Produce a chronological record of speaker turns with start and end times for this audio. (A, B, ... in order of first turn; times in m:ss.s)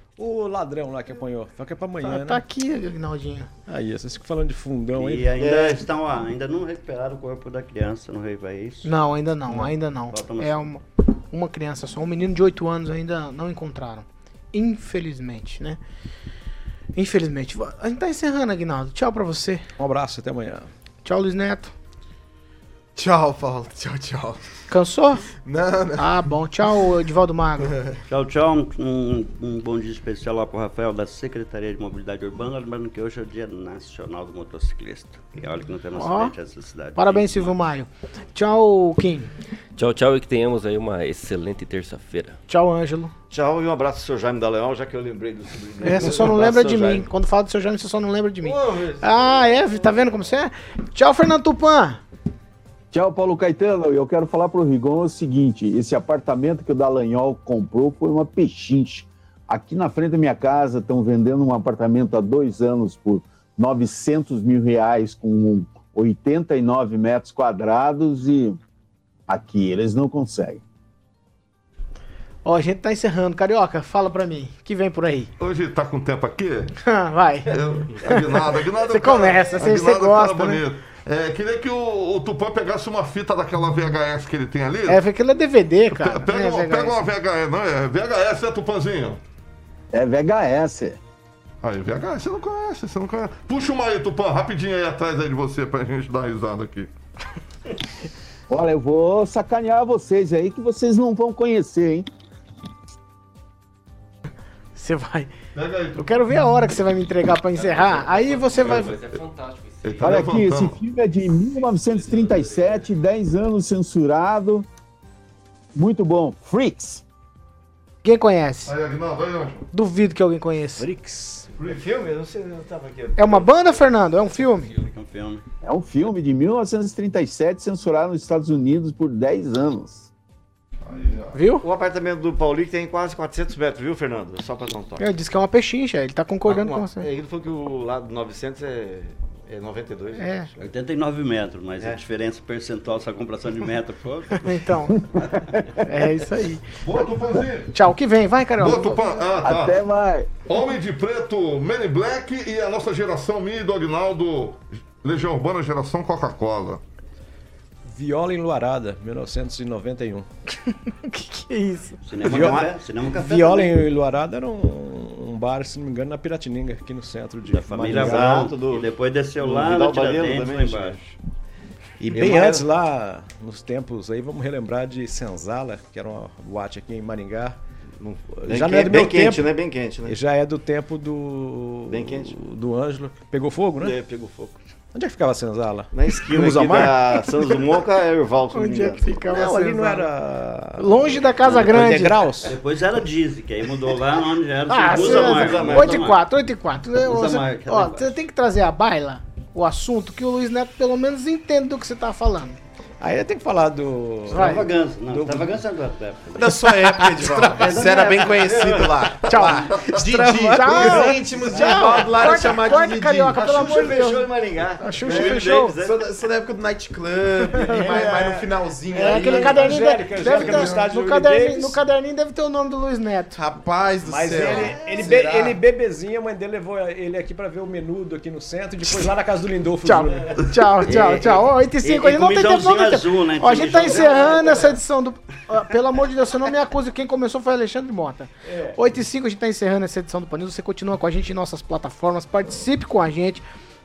0:00.2-0:02.4 A
0:02.0-0:03.5 B
0:03.7-0:05.3 A
0:04.9-0:08.9 C
0:05.4-0:05.8 D
0:08.8-0:15.8 B
0:10.1-0:10.7 C
0:17.0-0:19.6 B
0:19.8-0:20.7 A
0:21.0-0:21.7 B
0:23.0-0:24.4 E
0:24.7-0:25.3 B
0:25.4-0:26.2 E
0:26.0-0:27.7 B
0:28.1-0:37.6 C
0:36.0-0:36.3 B
0:37.0-0:39.3 B
0:39.8-0:42.4 F
0:42.5-0:43.1 B
0:43.3-0:47.1 D
0:45.8-0:52.0 B
0:48.4-0:49.8 D
0:52.9-1:08.6 G
1:09.3-1:10.6 G
1:12.4-1:15.3 B
1:15.4-1:16.7 H
1:16.8-1:17.5 B
1:17.5-1:25.0 H
1:18.0-1:20.6 B
1:19.3-1:19.6 D
1:24.9-1:27.0 B
1:25.9-1:29.2 H
1:29.9-1:31.0 G
1:31.6-1:36.9 H
1:38.5-1:42.1 G
1:44.8-1:45.3 B
1:45.6-1:46.2 H
1:46.0-1:48.9 B
1:47.5-1:50.5 F
1:49.8-1:50.8 H
1:50.0-1:54.7 G
1:51.4-1:52.9 F
1:55.7-1:57.0 G
1:58.0-1:58.7 B
1:58.7-1:59.6 H
1:59.7-2:01.4 B
2:01.5-2:03.8 D
2:03.2-2:04.7 B
2:04.6-2:05.4 C
2:05.6-2:10.1 G
2:10.8-2:11.4 H
2:11.3-2:11.6 B
2:11.6-2:15.1 D
2:15.0-2:17.1 B
2:16.5-2:20.5 D
2:20.2-2:20.5 B
2:20.6-2:24.6 C
2:24.4-2:25.0 B
2:25.2-2:25.5 C
2:25.2-2:25.6 G
2:25.9-2:26.7 B
2:26.8-2:27.7 H
2:27.7-2:29.1 B
2:28.6-2:29.8 H
2:29.4-2:30.3 G
2:30.5-2:36.8 H
2:37.9-2:40.3 A
2:40.7-2:42.0 B
2:42.1-2:43.8 C
2:42.2-2:48.5 A
2:42.3-2:42.7 D
2:47.5-2:51.0 C
2:47.9-2:51.2 D
2:52.0-2:57.6 A
2:52.1-2:52.7 D
2:58.0-3:00.2 D
2:58.3-2:59.5 A
3:00.1-3:04.0 A
3:01.9-3:02.4 D
3:03.8-3:04.6 D
3:04.9-3:07.3 A
3:05.9-3:09.1 D
3:08.5-3:10.1 B
3:09.3-3:12.6 A
3:10.8-3:12.2 B
3:11.5-3:11.9 C
3:12.4-3:16.2 C
3:14.7-3:22.6 B
3:14.8-3:16.0 D
3:17.0-3:18.1 C
3:23.0-3:25.6 A
3:24.3-3:24.7 B
3:24.3-3:28.9 C
3:26.4-3:33.5 E
3:26.6-3:27.8 B
3:27.9-3:29.1 D
3:29.2-3:29.7 B
3:30.0-3:32.4 A
3:30.4-3:34.3 B
3:33.3-3:36.0 D
3:34.8-3:35.7 B
3:35.1-3:40.9 E
3:37.5-3:38.1 B
3:37.5-3:41.8 A
3:38.9-3:43.4 B
3:43.3-3:45.6 E
3:44.0-3:50.3 A
3:49.8-4:03.4 B
3:50.8-3:54.7 C
3:53.8-3:54.8 D
3:58.5-3:58.8 A